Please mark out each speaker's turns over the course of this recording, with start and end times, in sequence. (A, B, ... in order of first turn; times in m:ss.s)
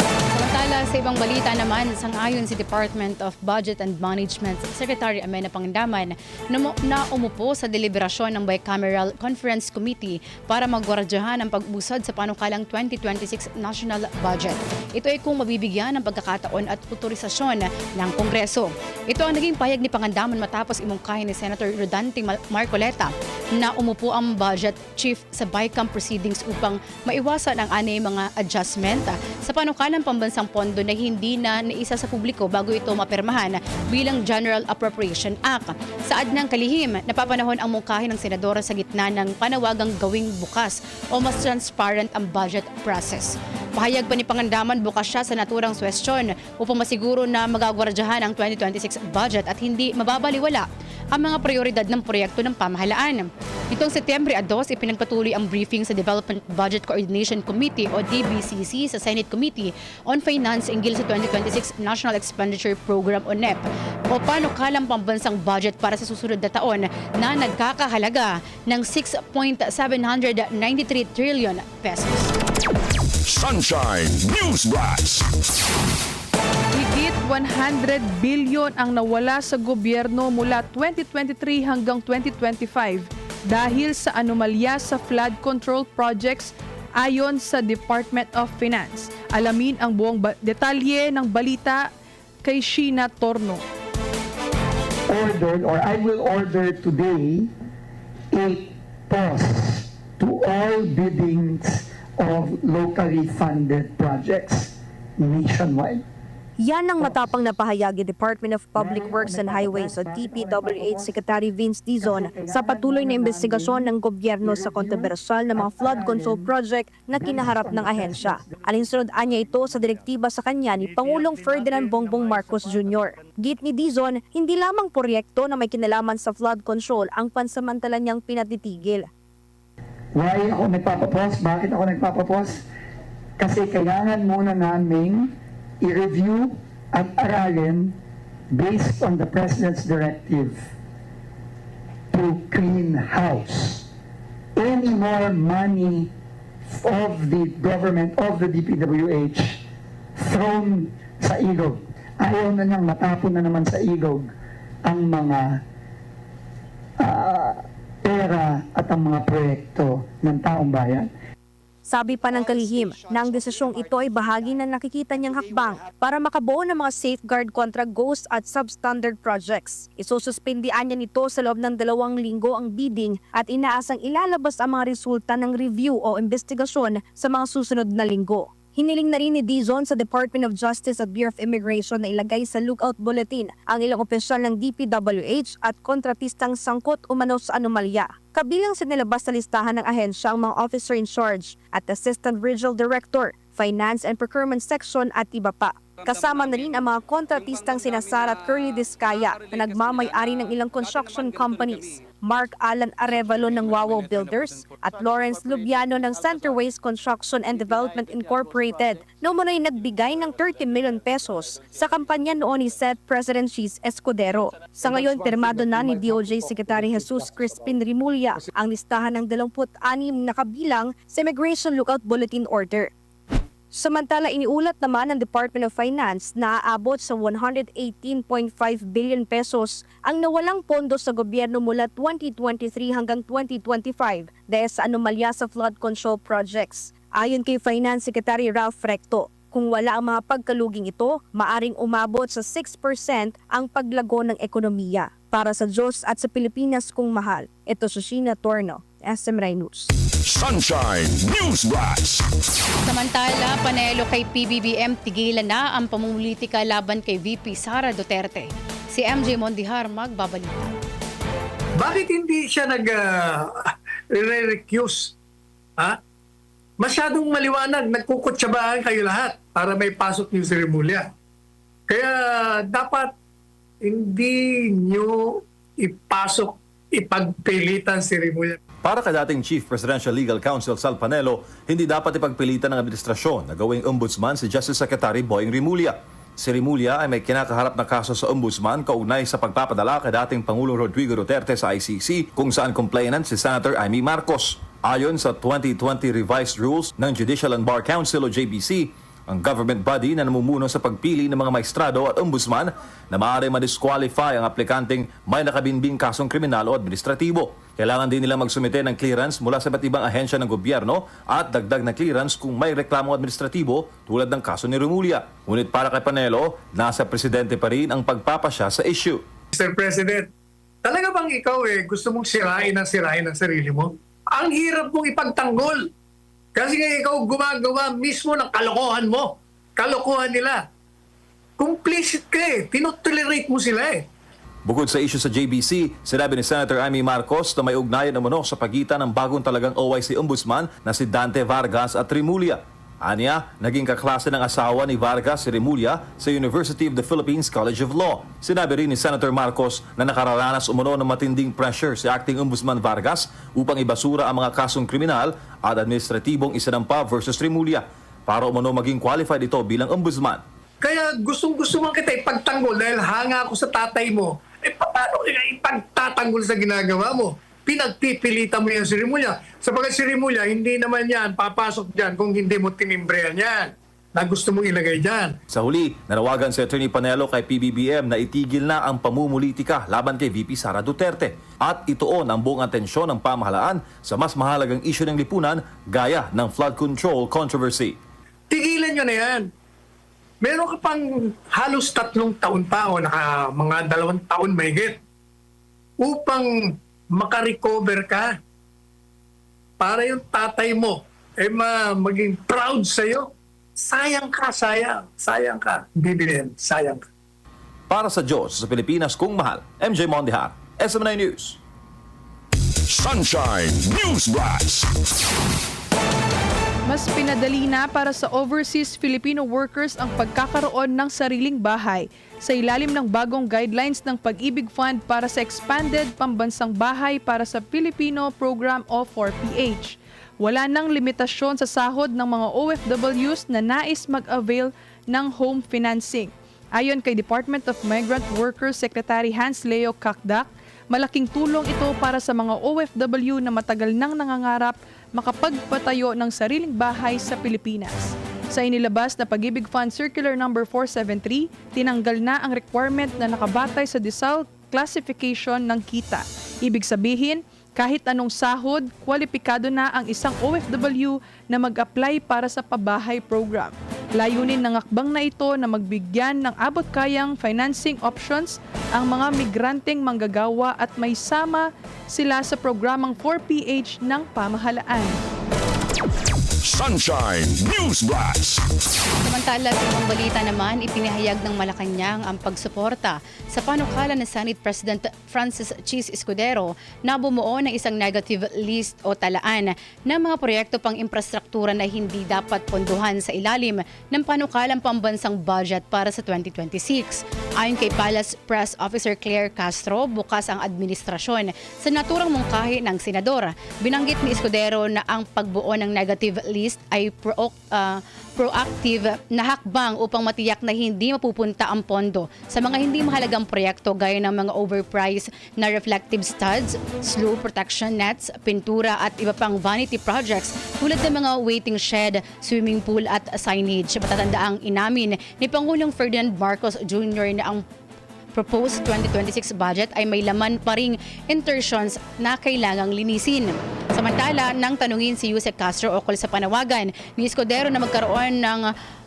0:00.3-1:12.3 A
1:13.2-1:15.3 B
1:16.7-1:31.9 C
1:32.4-1:33.6 C
1:35.1-1:37.5 D
1:38.3-1:46.0 D
1:46.6-2:09.1 E
1:48.8-1:51.2 D
1:52.0-1:53.9 D
1:54.4-1:56.5 D
1:57.1-1:58.6 D
2:10.1-2:12.6 D
2:13.4-2:18.0 D
2:18.5-2:20.7 D
2:22.1-2:23.8 D
2:24.6-2:26.1 D
2:26.7-2:29.6 D
2:30.2-2:34.3 D
2:34.9-2:35.6 D
2:37.0-2:41.1 D
2:41.9-3:42.9 E
3:43.7-4:09.9 E
4:10.2-4:12.3 B
4:12.8-4:20.7 A
4:21.8-4:25.1 F
4:26.8-4:31.1 F
4:31.9-4:33.1 F
4:33.8-4:38.6 F
4:38.8-5:19.2 G
5:19.5-5:20.3 F
5:20.8-5:25.9 F
5:26.6-5:30.6 F
5:31.6-5:34.1 F
5:34.7-6:00.4 G
6:00.8-6:15.4 F
6:15.5-6:28.0 G
6:28.5-6:29.5 F
6:30.4-6:35.0 F
6:36.0-6:38.4 F
6:39.8-6:47.0 F
6:47.9-6:51.6 G
6:52.9-6:54.9 B
6:56.9-7:55.2 C
7:56.6-7:58.6 B
7:59.2-8:47.6 A
8:48.4-8:58.7 A